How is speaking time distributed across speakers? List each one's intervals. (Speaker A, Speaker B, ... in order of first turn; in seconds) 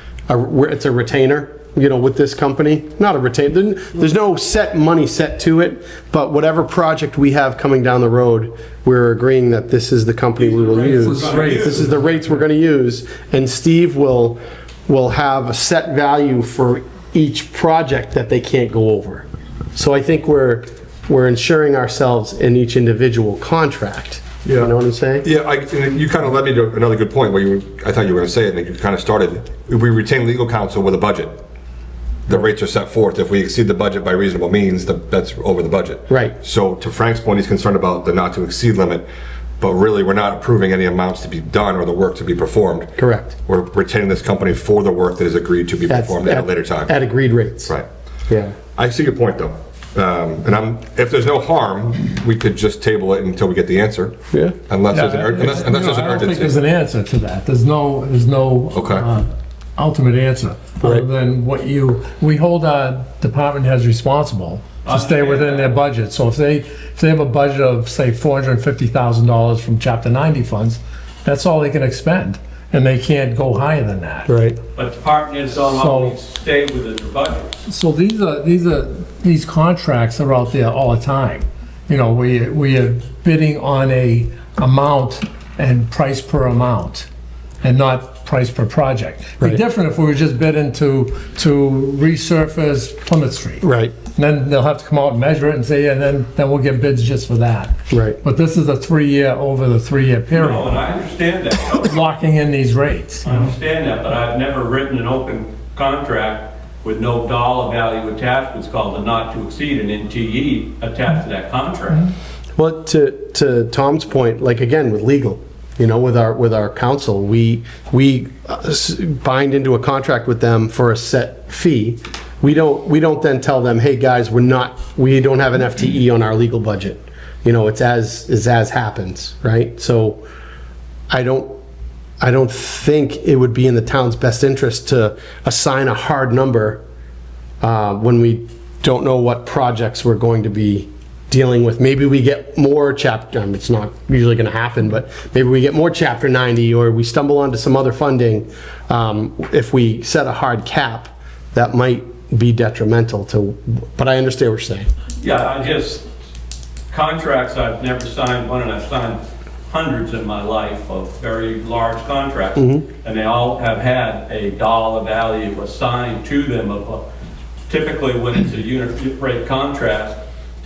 Speaker A: 0.3-25.2, 36.1-36.3, 43.0-43.3, 45.9-47.7, 48.3-48.5, 54.3-54.6, 60.8-61.1, 74.3-74.6, 93.6-94.0, 97.9-98.2, 112.5-130.2, 131.1-131.6, 132.2-136.8, 137.6-154.9, 162.6-162.8
Speaker B: 10.3-11.9, 64.8-65.8, 74.7-77.6, 100.3-102.0, 103.2-112.1, 155.2-156.1, 156.9-167.0, 167.7-170.2
Speaker C: 10.8-12.4, 54.9-74.4, 75.7-76.1, 77.7-87.1, 87.6-100.7, 101.8-103.5
Speaker D: 24.4-24.7, 25.2-31.4, 32.3-39.0, 39.6-47.0, 48.8-56.6, 58.7-59.1